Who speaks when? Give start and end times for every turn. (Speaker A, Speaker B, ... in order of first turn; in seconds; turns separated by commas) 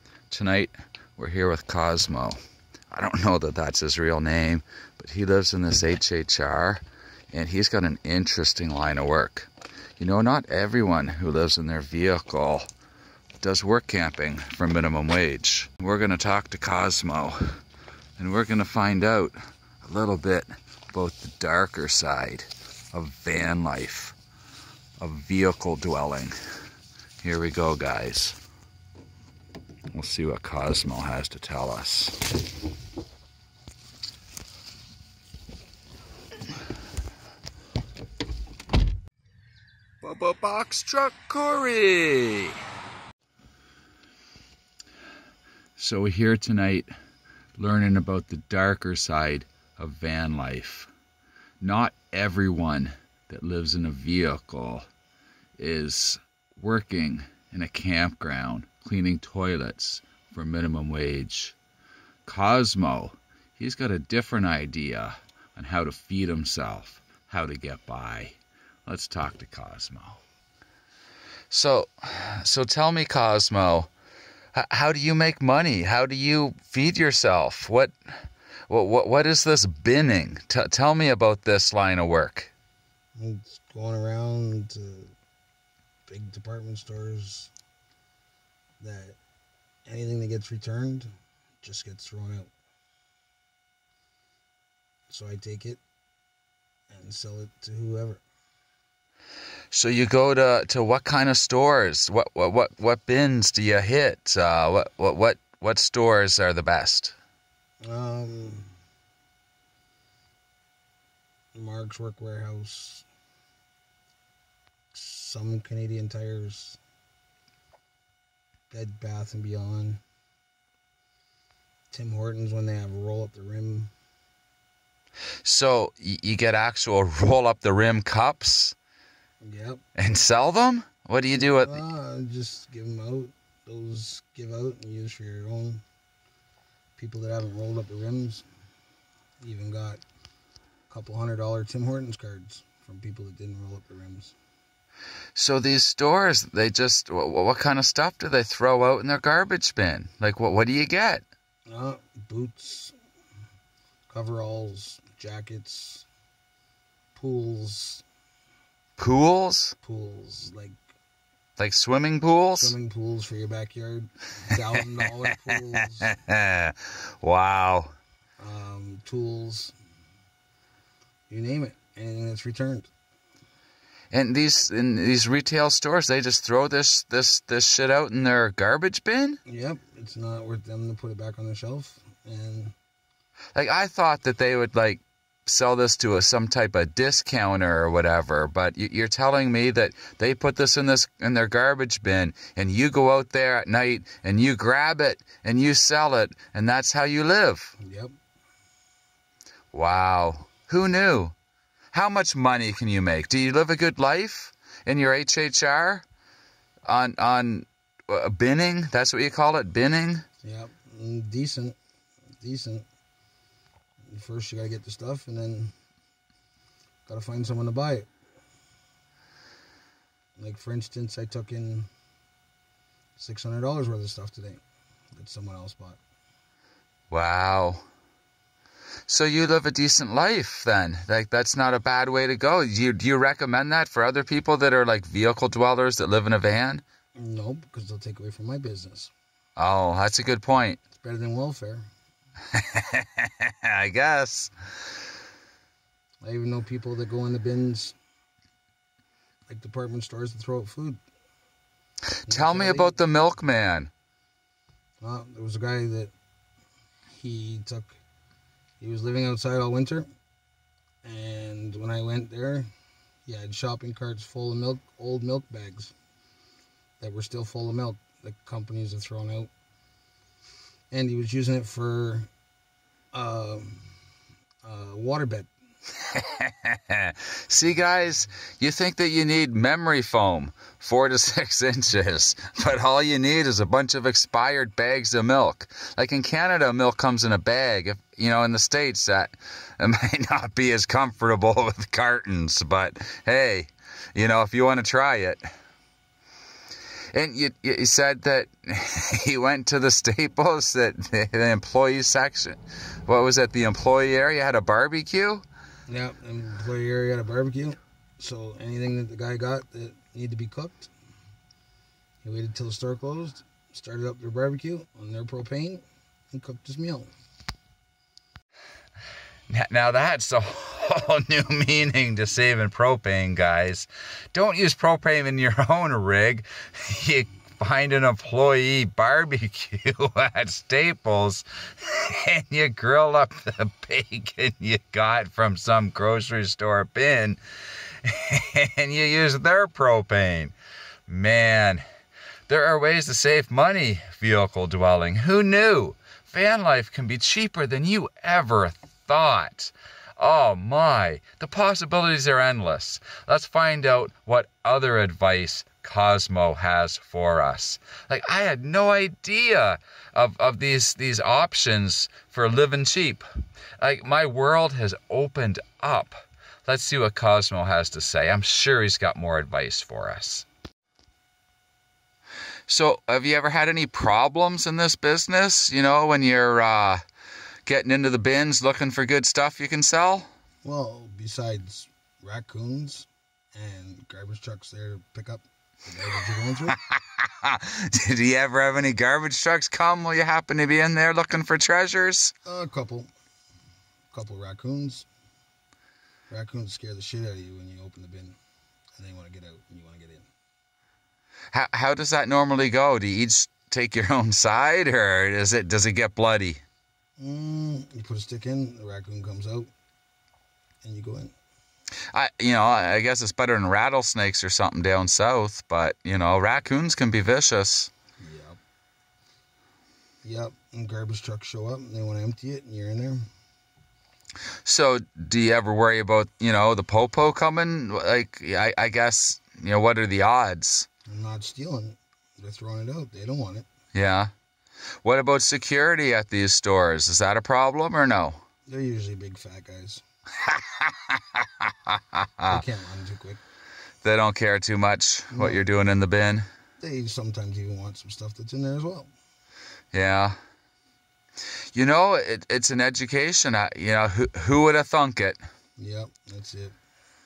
Speaker A: 0.3-2.4, Speaker A: 2.9-12.7, Speaker A: 13.4-17.4, Speaker A: 18.2-24.2, Speaker A: 25.0-26.4, Speaker A: 27.2-28.4, Speaker A: 29.9-32.2, Speaker A: 40.0-42.6, Speaker A: 45.8-46.9, Speaker A: 47.6-50.9, Speaker A: 51.6-54.9, Speaker A: 55.6-61.6, Speaker A: 62.3-70.2, Speaker A: 71.5-73.9, Speaker A: 74.5-77.9, Speaker A: 78.7-82.5, Speaker B: 83.2-85.1, Speaker B: 86.1-87.5, Speaker B: 88.8-89.2, Speaker B: 89.9-92.5, Speaker B: 95.1-95.8, Speaker B: 96.9-98.2, Speaker A: 99.7-107.2, Speaker B: 107.8-108.7, Speaker B: 111.5-113.1, Speaker B: 114.9-116.8, Speaker B: 118.7-120.0, Speaker B: 121.9-123.9, Speaker A: 125.4-128.8, Speaker B: 129.4-129.8, Speaker A: 130.0-131.8, Speaker B: 131.4-135.8, Speaker B: 137.0-138.5, Speaker B: 139.4-140.0, Speaker B: 140.9-144.3, Speaker A: 145.3-151.2, Speaker B: 151.7-152.9, Speaker B: 154.1-156.1, Speaker B: 157.2-158.1, Speaker A: 159.0-159.8, Speaker B: 159.8-160.8, Speaker A: 161.6-162.8, Speaker B: 162.6-166.2, Speaker A: 166.1-167.9, Speaker B: 168.4-169.7, Speaker B: 171.3-172.9, Speaker A: 174.1-179.4, Speaker B: 179.5-182.8, Speaker A: 183.6-197.8, Speaker B: 197.8-198.1, Speaker A: 199.7-201.3, Speaker A: 201.9-206.1, Speaker A: 206.9-210.2, Speaker B: 210.4-211.8, Speaker B: 212.4-212.9, Speaker B: 214.0-215.7, Speaker B: 217.1-218.1, Speaker B: 220.4-221.9, Speaker B: 223.2-224.6, Speaker B: 225.1-226.0, Speaker A: 227.1-227.8, Speaker A: 229.1-236.8, Speaker B: 237.2-239.1, Speaker A: 239.6-240.8, Speaker B: 240.9-241.9, Speaker A: 242.5-244.5, Speaker B: 246.2-248.0, Speaker B: 249.5-251.0, Speaker A: 252.3-253.9, Speaker B: 252.3-253.0, Speaker B: 255.0-256.1, Speaker B: 257.1-258.0, Speaker B: 258.8-260.1, Speaker B: 261.0-262.7, Speaker B: 263.3-265.9, Speaker B: 267.0-269.5, Speaker B: 270.9-272.3, Speaker B: 273.1-273.9, Speaker B: 274.6-275.5, Speaker A: 276.1-295.4, Speaker A: 297.1-305.4, Speaker B: 305.9-310.9, Speaker B: 312.2-317.1, Speaker A: 319.5-337.4, Speaker A: 338.0-340.5, Speaker A: 341.1-341.8, Speaker A: 342.5-363.3, Speaker A: 363.8-370.5, Speaker A: 372.7-377.0, Speaker A: 377.7-380.3, Speaker B: 380.6-386.8, Speaker A: 386.7-392.3, Speaker B: 392.4-393.1, Speaker B: 394.1-395.1, Speaker B: 396.3-398.4, Speaker B: 399.0-400.3, Speaker A: 401.5-406.6, Speaker B: 407.2-409.7, Speaker B: 410.8-411.3, Speaker A: 412.1-417.9, Speaker B: 418.2-418.6, Speaker B: 420.2-423.3, Speaker A: 424.6-430.9, Speaker B: 431.1-433.7, Speaker A: 433.9-434.3, Speaker A: 435.0-438.4, Speaker B: 438.7-440.0, Speaker A: 440.4-442.6, Speaker B: 442.5-443.4, Speaker A: 444.0-446.5, Speaker B: 445.3-445.7, Speaker B: 446.8-449.1, Speaker A: 449.9-450.4, Speaker A: 451.7-455.4, Speaker B: 455.8-456.8